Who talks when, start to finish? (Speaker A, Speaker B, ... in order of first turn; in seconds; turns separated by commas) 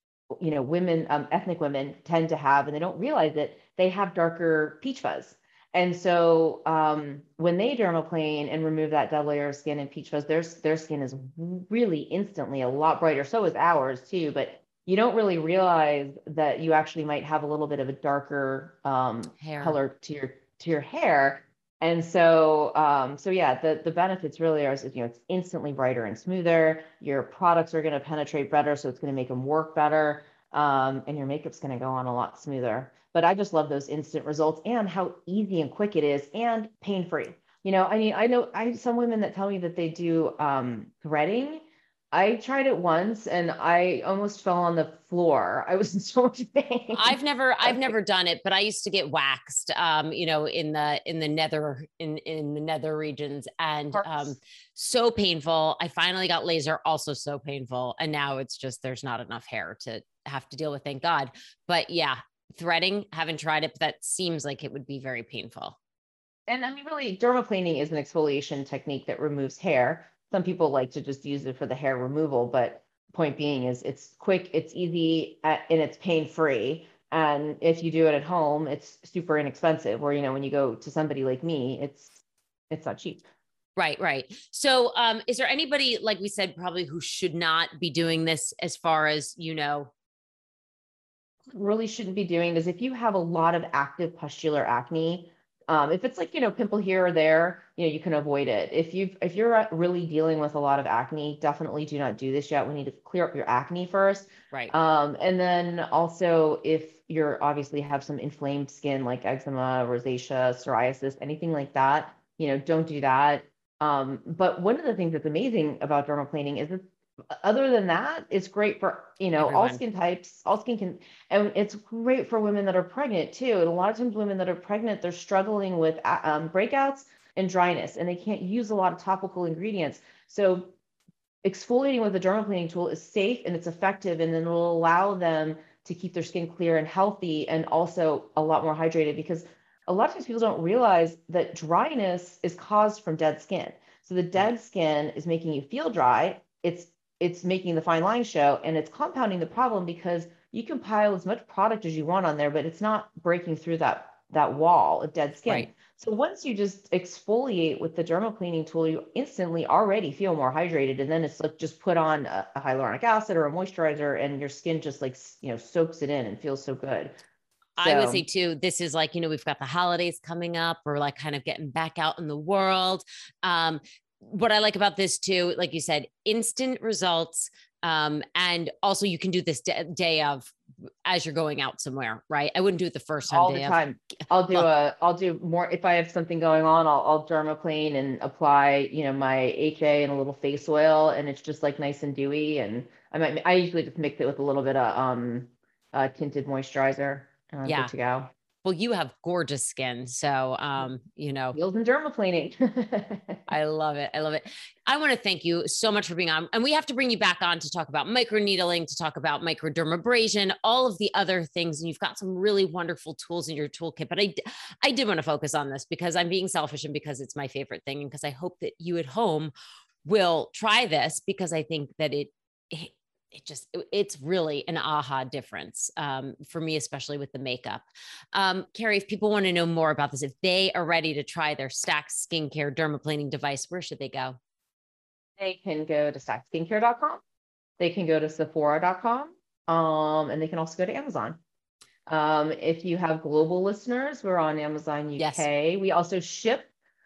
Speaker A: 0.4-47.9, Speaker B: 19.4-19.8, Speaker B: 46.9-65.8, Speaker A: 53.9-54.4, Speaker A: 66.5-82.1, Speaker A: 82.7-83.3, Speaker B: 83.8-89.9, Speaker A: 91.5-130.7, Speaker B: 119.4-119.8, Speaker A: 131.4-167.2, Speaker B: 167.8-180.5, Speaker A: 167.8-168.3, Speaker B: 181.1-183.8, Speaker A: 183.3-198.3, Speaker B: 197.6-197.9, Speaker B: 198.6-201.6, Speaker A: 201.5-203.4, Speaker B: 203.5-219.5, Speaker B: 220.1-234.4, Speaker A: 235.4-237.2, Speaker A: 237.8-241.4, Speaker A: 242.1-246.7, Speaker B: 245.2-245.5